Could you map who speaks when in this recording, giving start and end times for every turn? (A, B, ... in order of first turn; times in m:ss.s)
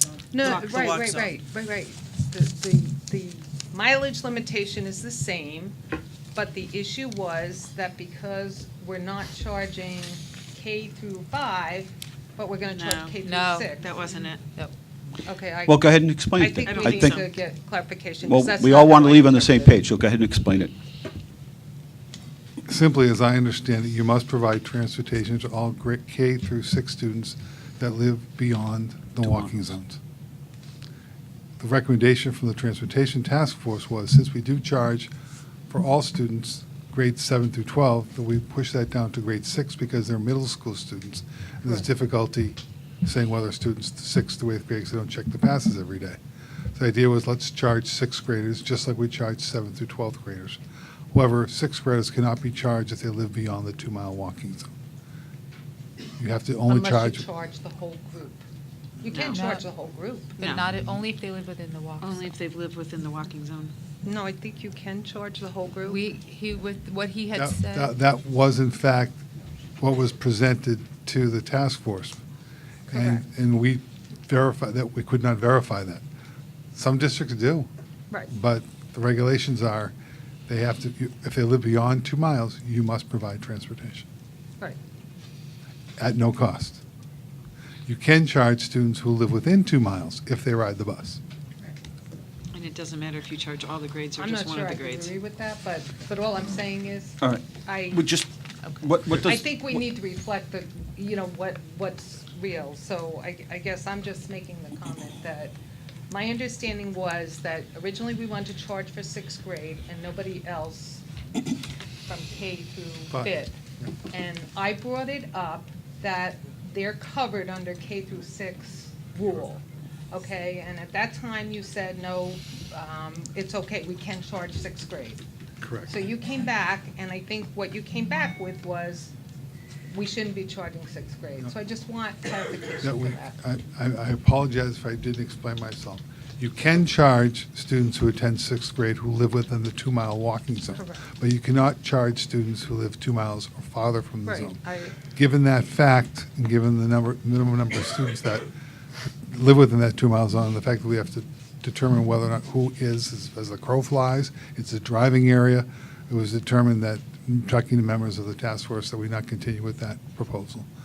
0:00.3-0:05.8 A
0:00.4-0:01.4 B
0:06.4-0:14.3 A
0:12.6-0:14.5 B
0:13.2-0:13.7 C
0:15.2-0:19.8 A
0:15.7-0:17.3 D
0:16.6-0:17.3 B
0:18.2-0:20.7 D
0:22.6-0:30.0 E
0:31.6-0:35.1 E
0:35.7-0:46.2 E
0:46.8-0:50.6 E
0:51.1-0:54.7 E
0:56.2-0:57.3 E
0:56.7-0:58.4 A
0:59.0-1:00.4 A
0:59.2-0:59.4 B
0:59.3-0:59.6 C
1:00.4-1:02.3 C
1:00.4-1:00.7 B
1:02.0-1:03.7 B
1:04.0-1:06.1 A
1:05.9-1:07.9 C
1:07.3-1:09.2 E
1:09.8-1:12.2 E
1:12.9-1:16.0 E
1:12.9-1:13.3 A
1:16.7-1:17.7 E
1:18.3-1:19.9 E
1:20.5-1:24.1 E
1:26.0-1:26.8 E
1:27.9-1:31.2 E
1:32.5-1:35.2 B
1:34.2-1:38.0 A
1:37.2-1:39.8 D
1:39.2-1:45.5 A
1:46.1-1:51.0 A
1:52.1-1:53.6 A
1:54.1-2:05.2 A
2:05.6-2:06.0 E
2:05.9-2:09.1 A
2:09.9-2:13.4 A
2:12.8-2:28.5 E
2:20.7-2:21.0 A
2:24.2-2:25.0 A
2:29.3-2:40.7 E